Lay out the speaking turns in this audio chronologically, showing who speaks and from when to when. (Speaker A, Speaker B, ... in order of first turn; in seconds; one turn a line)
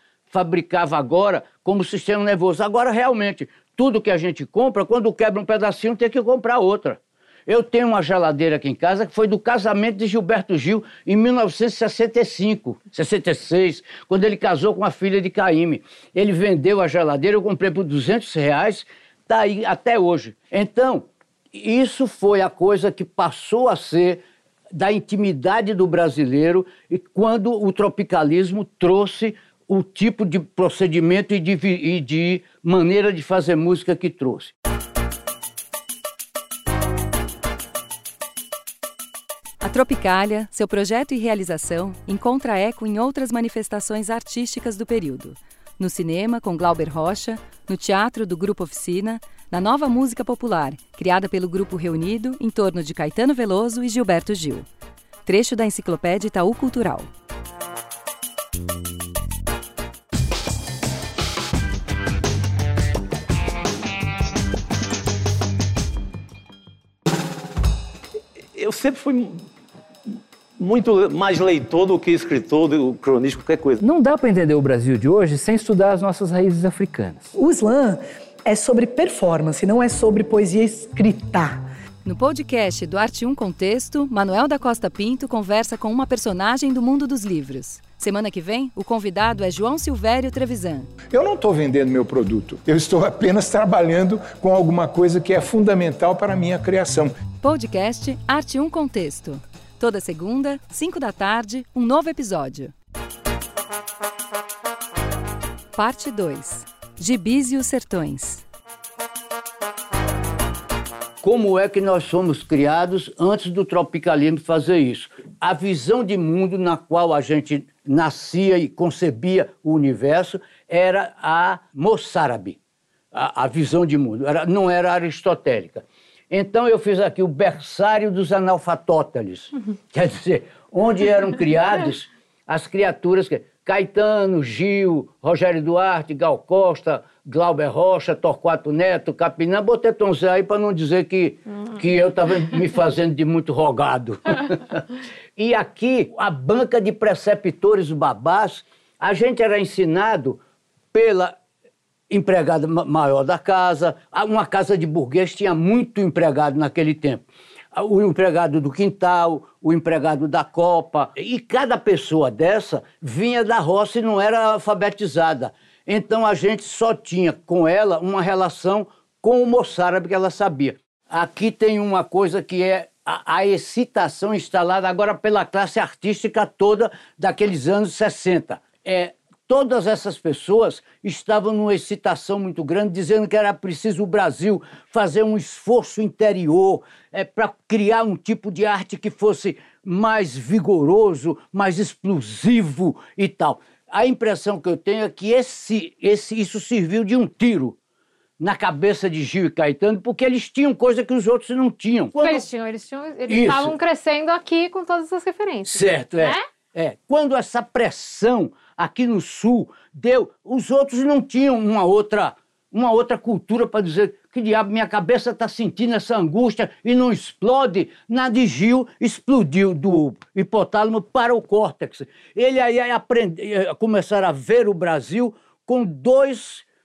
Speaker A: 0.3-34.5
Speaker B: 39.6-54.7
Speaker B: 55.3-57.1
Speaker C: 68.5-69.4
Speaker C: 70.6-73.8
Speaker D: 73.8-77.3
Speaker E: 77.3-81.6
Speaker B: 82.0-90.9
Speaker F: 91.1-97.2
Speaker B: 97.4-102.7
Speaker B: 105.8-108.4
Speaker A: 111.2-122.6
Speaker A: 123.1-144.8
Speaker A: 145.4-150.4
Speaker A: 150.9-151.4
Speaker A: 152.1-197.8
Speaker A: 198.4-202.5
Speaker G: 202.2-206.4
Speaker A: 203.3-203.8
Speaker A: 205.7-226.7